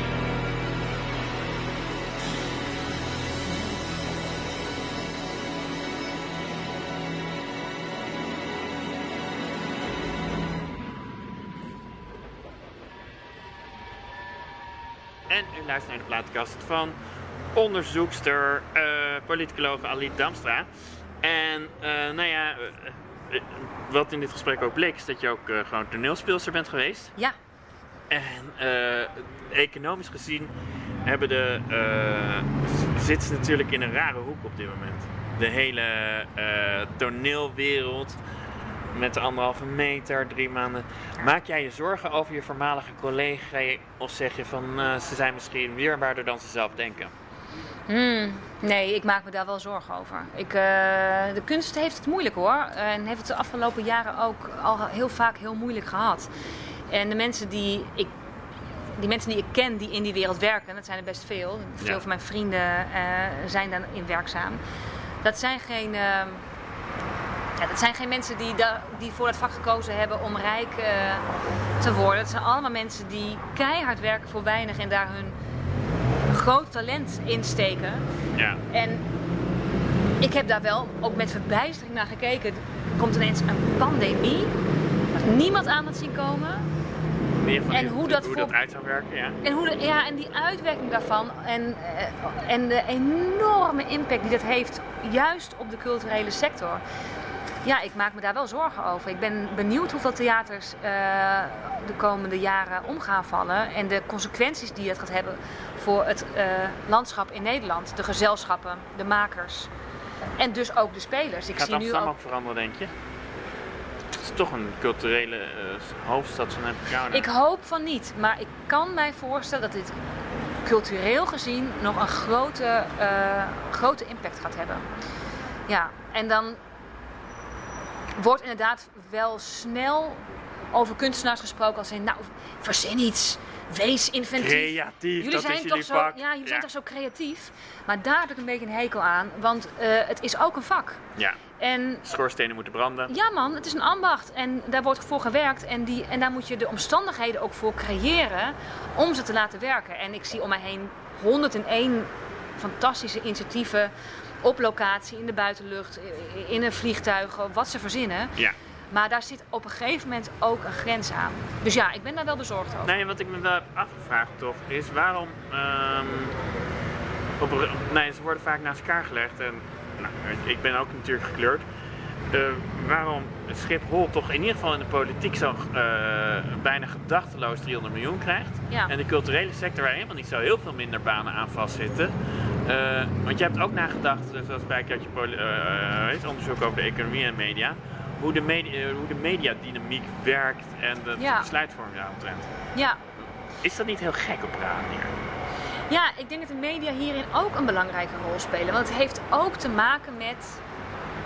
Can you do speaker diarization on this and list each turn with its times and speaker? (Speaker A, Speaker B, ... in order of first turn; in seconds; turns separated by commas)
Speaker A: 15.3-16.9, Speaker A: 17.5-20.7, Speaker A: 21.2-27.1, Speaker A: 28.1-30.5, Speaker A: 31.0-38.2, Speaker A: 38.9-47.1, Speaker B: 47.9-56.3, Speaker B: 56.9-58.1, Speaker B: 58.9-64.6, Speaker B: 65.2-66.4, Speaker B: 67.6-71.2, Speaker B: 71.8-75.3, Speaker B: 76.3-78.0, Speaker A: 78.3-78.6, Speaker B: 78.7-79.0, Speaker B: 80.2-84.5, Speaker B: 85.1-86.7, Speaker A: 87.4-89.4, Speaker B: 87.7-88.5, Speaker B: 89.4-96.8, Speaker B: 97.6-109.7, Speaker B: 110.4-112.1, Speaker A: 111.5-112.9, Speaker A: 114.2-117.3, Speaker B: 117.1-119.9, Speaker B: 120.6-124.8, Speaker B: 125.7-126.6, Speaker B: 128.2-141.0, Speaker A: 134.4-136.7, Speaker B: 141.6-142.0, Speaker A: 142.0-143.1, Speaker B: 143.1-153.9, Speaker B: 154.4-158.4, Speaker B: 158.9-162.9, Speaker A: 162.8-166.3, Speaker A: 167.4-171.6, Speaker A: 172.3-182.1, Speaker A: 182.6-192.5, Speaker B: 191.2-191.5, Speaker A: 193.6-195.1, Speaker B: 195.9-200.6